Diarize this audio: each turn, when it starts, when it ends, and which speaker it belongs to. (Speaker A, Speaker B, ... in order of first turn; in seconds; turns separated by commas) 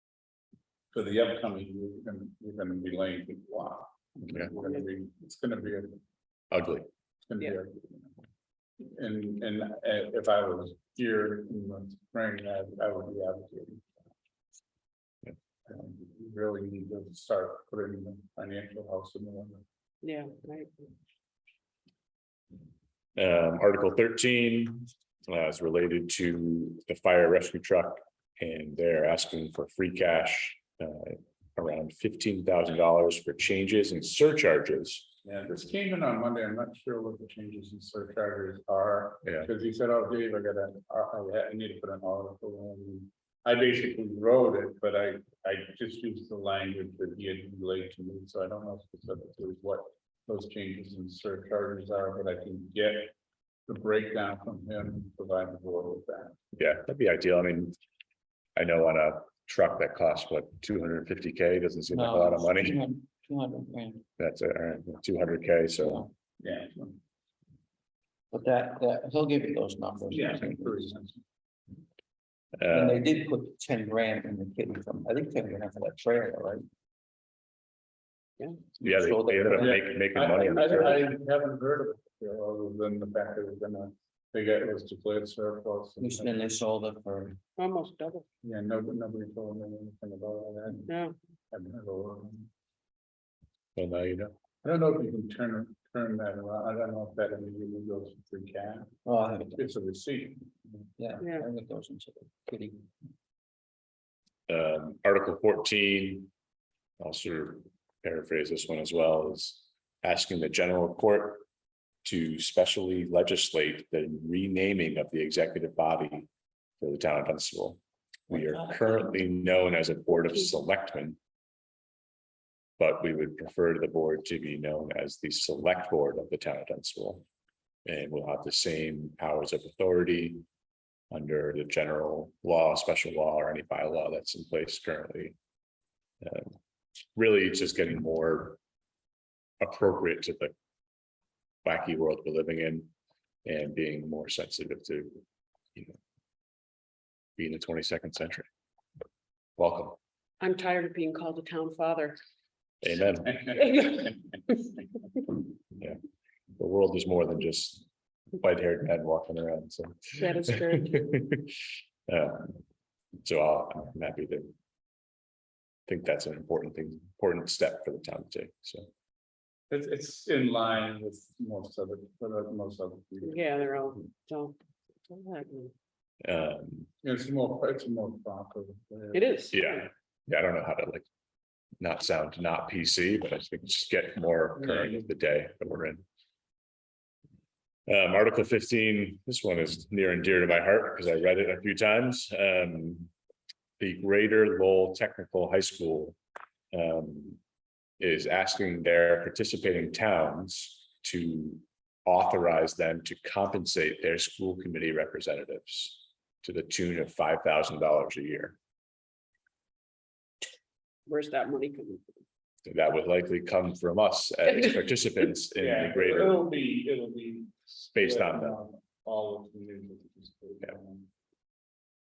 Speaker A: 0.9-6.0, Speaker B: 6.5-6.9, Speaker A: 7.3-8.1, Speaker A: 8.8-13.9, Speaker A: 15.7-19.6, Speaker C: 20.0-20.7, Speaker B: 23.2-35.1, Speaker A: 35.2-53.1, Speaker A: 53.7-56.4, Speaker B: 56.5-57.8, Speaker B: 58.6-62.8, Speaker D: 61.9-64.1, Speaker B: 64.2-66.1, Speaker A: 66.4-67.0, Speaker D: 68.3-70.9, Speaker A: 70.1-71.2, Speaker B: 72.6-73.0, Speaker D: 72.7-76.6, Speaker B: 78.8-81.0, Speaker D: 78.8-79.8, Speaker A: 79.6-86.4, Speaker D: 86.0-87.4, Speaker C: 87.6-88.2, Speaker A: 88.4-90.9, Speaker C: 90.9-91.2, Speaker A: 91.5-92.5, Speaker B: 93.8-94.3, Speaker A: 94.6-99.0, Speaker D: 99.0-99.7, Speaker A: 99.5-100.5, Speaker D: 101.0-102.9, Speaker C: 101.2-101.5, Speaker B: 104.5-106.3, Speaker B: 107.0-111.5, Speaker B: 112.0-116.3, Speaker B: 116.8-121.2, Speaker D: 118.3-119.1, Speaker B: 122.8-127.2, Speaker B: 127.8-130.4, Speaker B: 131.1-135.4, Speaker B: 136.2-136.5, Speaker B: 137.2-138.6, Speaker B: 139.6-140.5, Speaker B: 141.7-142.9, Speaker B: 143.4-145.2, Speaker B: 147.4-148.5, Speaker B: 149.6-150.0, Speaker C: 150.4-152.2, Speaker B: 152.8-153.8, Speaker C: 153.5-154.6, Speaker B: 156.6-157.9, Speaker B: 158.4-161.5, Speaker C: 160.2-161.1, Speaker B: 162.1-162.6, Speaker B: 163.2-164.5, Speaker B: 165.9-168.9, Speaker A: 169.7-173.7, Speaker C: 173.2-175.7, Speaker B: 176.2-176.9, Speaker A: 177.0-179.4, Speaker C: 179.1-179.9, Speaker B: 179.5-181.1, Speaker B: 181.8-186.0, Speaker A: 184.6-185.0, Speaker B: 187.9-193.1, Speaker B: 193.8-196.2, Speaker B: 196.7-197.4, Speaker B: 198.0-208.6, Speaker C: 211.1-212.1, Speaker B: 212.7-216.4, Speaker A: 215.6-221.1, Speaker B: 217.9-218.6